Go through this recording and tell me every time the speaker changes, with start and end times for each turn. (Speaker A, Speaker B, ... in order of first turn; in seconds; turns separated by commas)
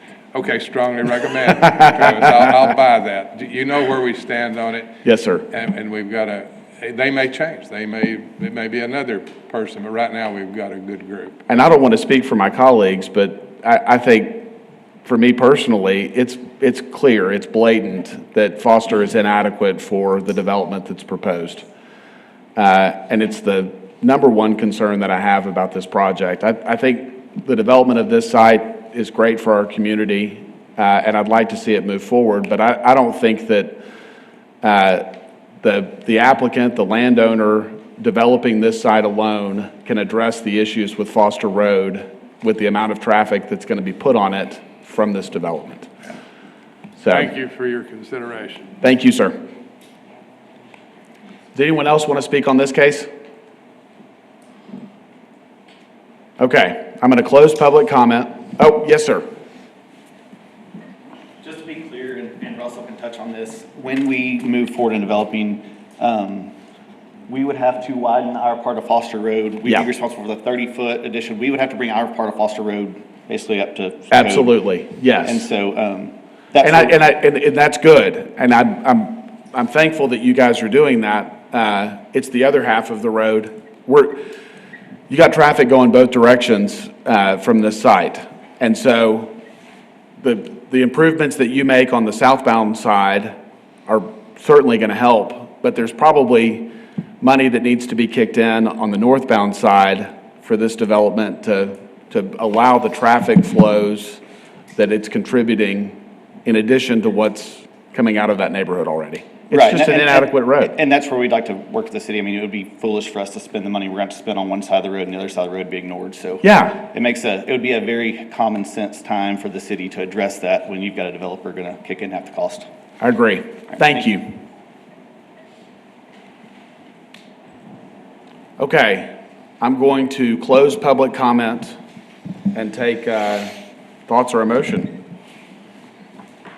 Speaker A: 0.3-4.9, Speaker B: 1.6-2.5, Speaker B: 5.0-5.5, Speaker A: 5.5-11.4, Speaker B: 11.5-14.5, Speaker B: 15.1-21.6, Speaker B: 22.6-33.8, Speaker B: 34.6-45.9, Speaker B: 47.0-47.3, Speaker A: 47.1-48.7, Speaker B: 48.8-49.4, Speaker B: 51.5-53.1, Speaker B: 56.4-59.3, Speaker C: 61.4-66.5, Speaker C: 67.3-74.6, Speaker B: 74.1-75.5, Speaker C: 75.2-76.9, Speaker B: 76.6-84.3, Speaker B: 85.1-89.3, Speaker B: 90.2-93.3, Speaker B: 93.9-104.2, Speaker B: 104.8-110.8, Speaker C: 109.5-122.7, Speaker B: 116.4-116.8, Speaker B: 123.0-124.3, Speaker B: 128.6-131.8, Speaker B: 132.5-133.5, Speaker B: 134.1-135.0